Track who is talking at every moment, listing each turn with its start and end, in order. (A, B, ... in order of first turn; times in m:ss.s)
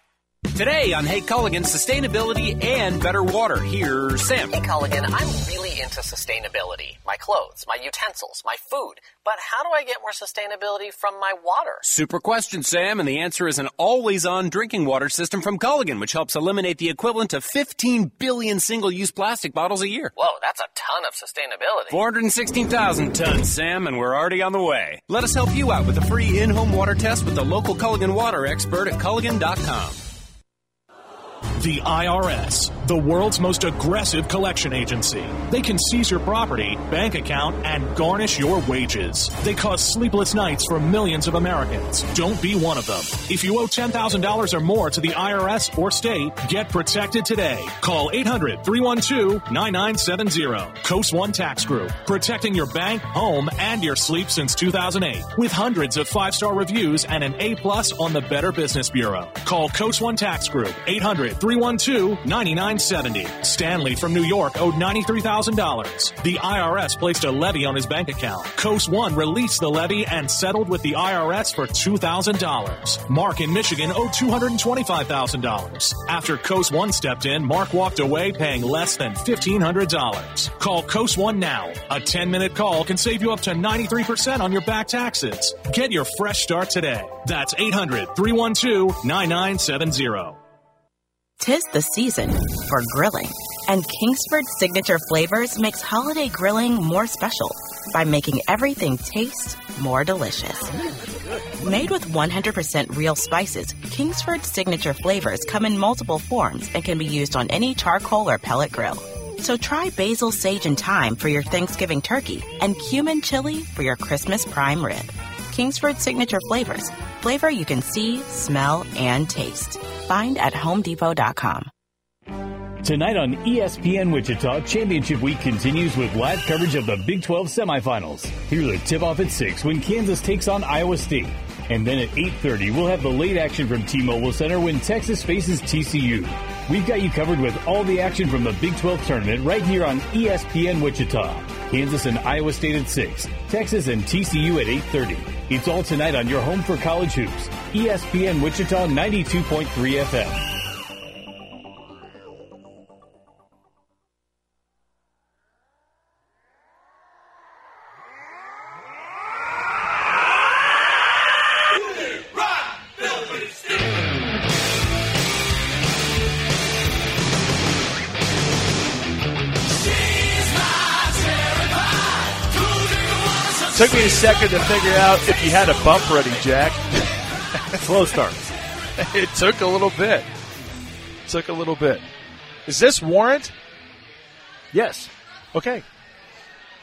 0:00.5-0:04.6 A
0:04.5-0:11.8 B
0:11.8-0:20.1 A
0:20.2-0:22.0 B
0:21.9-0:30.0 A
0:31.6-1:30.4 C
1:31.4-1:40.8 D
1:41.6-2:01.7 D
2:02.8-2:30.5 E
2:53.7-2:57.0 F
2:57.8-2:58.3 F
2:59.0-3:00.3 F
3:01.3-3:02.0 F
3:02.7-3:03.5 F
3:04.7-3:05.8 F